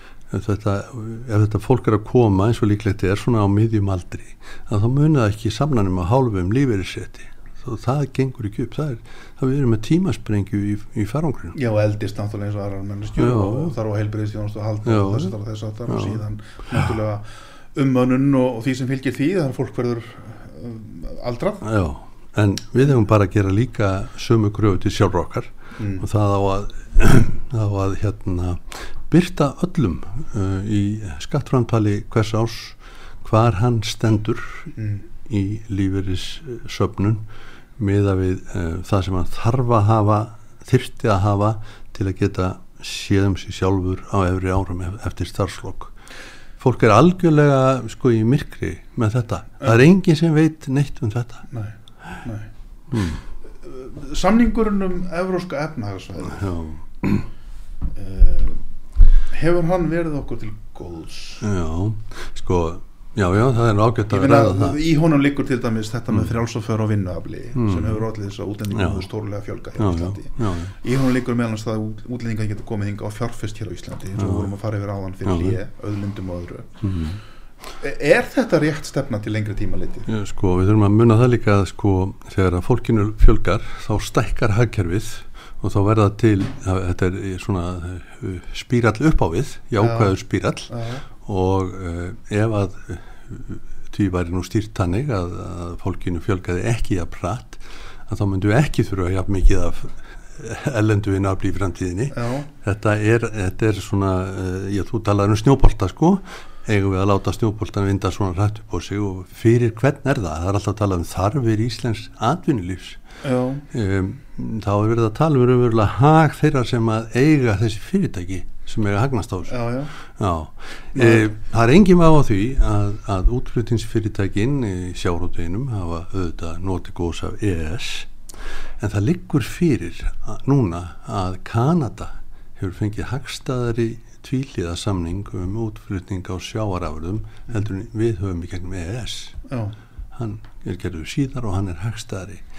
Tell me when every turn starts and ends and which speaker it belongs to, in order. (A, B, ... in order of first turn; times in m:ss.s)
0:00.3-0:11.6 A
0:11.5-0:21.6 B
0:13.2-0:13.7 A
0:14.8-0:15.3 A
0:15.9-0:16.2 A
0:21.6-0:34.7 A
0:25.8-0:26.0 B
0:34.8-0:35.0 B
0:35.2-0:37.2 A
0:37.8-0:45.9 A
0:46.6-0:51.4 A
0:51.5-0:52.5 B
0:52.9-0:53.2 A
0:53.6-0:56.5 B
0:56.3-0:57.3 A
0:57.9-0:58.6 B
0:59.3-1:01.5 B
1:01.4-1:04.8 A
1:04.1-1:16.7 B
1:07.5-1:08.0 A
1:08.7-1:09.1 A
1:09.8-1:10.7 A
1:14.2-1:14.5 A
1:15.2-1:15.6 A
1:16.8-1:17.2 A
1:17.8-1:20.1 B
1:20.1-1:53.0 A
1:29.8-1:30.2 B
1:30.7-1:31.0 B
1:42.1-1:42.5 B
1:53.2-1:53.6 B
1:53.7-2:08.1 A
1:59.5-1:59.9 B
2:00.9-2:01.3 B
2:08.8-2:19.4 A
2:19.5-2:19.7 B
2:20.1-2:22.4 A